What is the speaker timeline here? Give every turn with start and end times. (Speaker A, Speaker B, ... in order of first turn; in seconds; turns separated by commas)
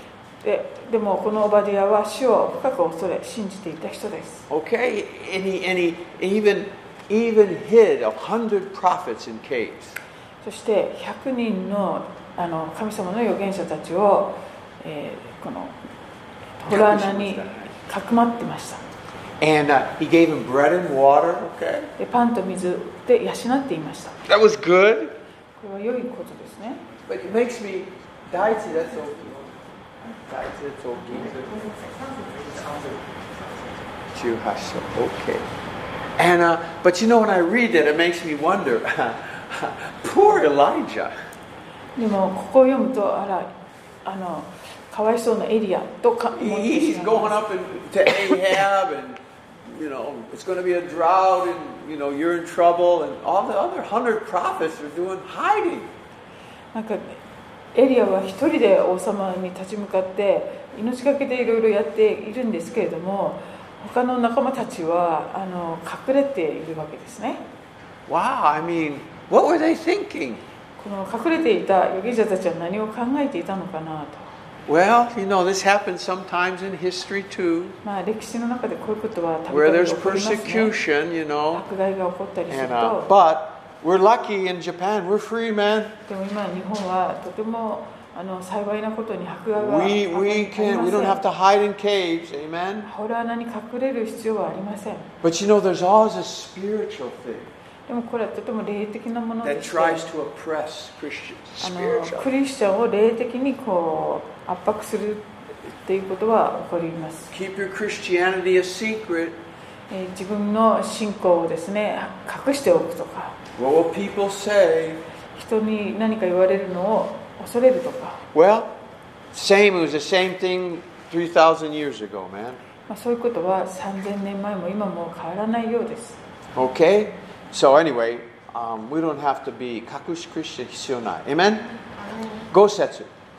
Speaker A: 0.4-4.5, Speaker B: 4.5-10.0, Speaker A: 10.4-15.8, Speaker A: 16.6-18.8, Speaker B: 16.7-17.8, Speaker B: 19.4-21.9, Speaker A: 22.0-24.2, Speaker B: 24.3-25.1, Speaker A: 25.6-26.8, Speaker B: 27.1-29.5, Speaker B: 30.2-31.6, Speaker B: 34.1-35.4, Speaker B: 36.2-41.1, Speaker A: 42.0-43.5, Speaker A: 44.0-47.3, Speaker B: 46.3-55.9, Speaker A: 56.7-57.2, Speaker A: 57.7-67.4, Speaker B: 68.1-70.4, Speaker A: 70.8-74.3, Speaker B: 74.7-77.8, Speaker A: 77.8-80.8, Speaker B: 79.5-81.7, Speaker A: 81.5-83.1, Speaker B: 82.5-86.0, Speaker A: 86.1-91.2, Speaker B: 89.5-92.9, Speaker A: 92.8-95.1, Speaker B: 95.2-97.5, Speaker A: 97.9-100.1, Speaker B: 99.4-102.3, Speaker A: 101.6-107.3, Speaker B: 107.3-109.4, Speaker A: 109.9-113.3, Speaker B: 113.5-115.0, Speaker A: 115.3-118.2, Speaker B: 118.3-118.7, Speaker B: 119.3-122.6, Speaker A: 122.9-126.2, Speaker B: 126.5-131.7, Speaker B: 132.5-133.1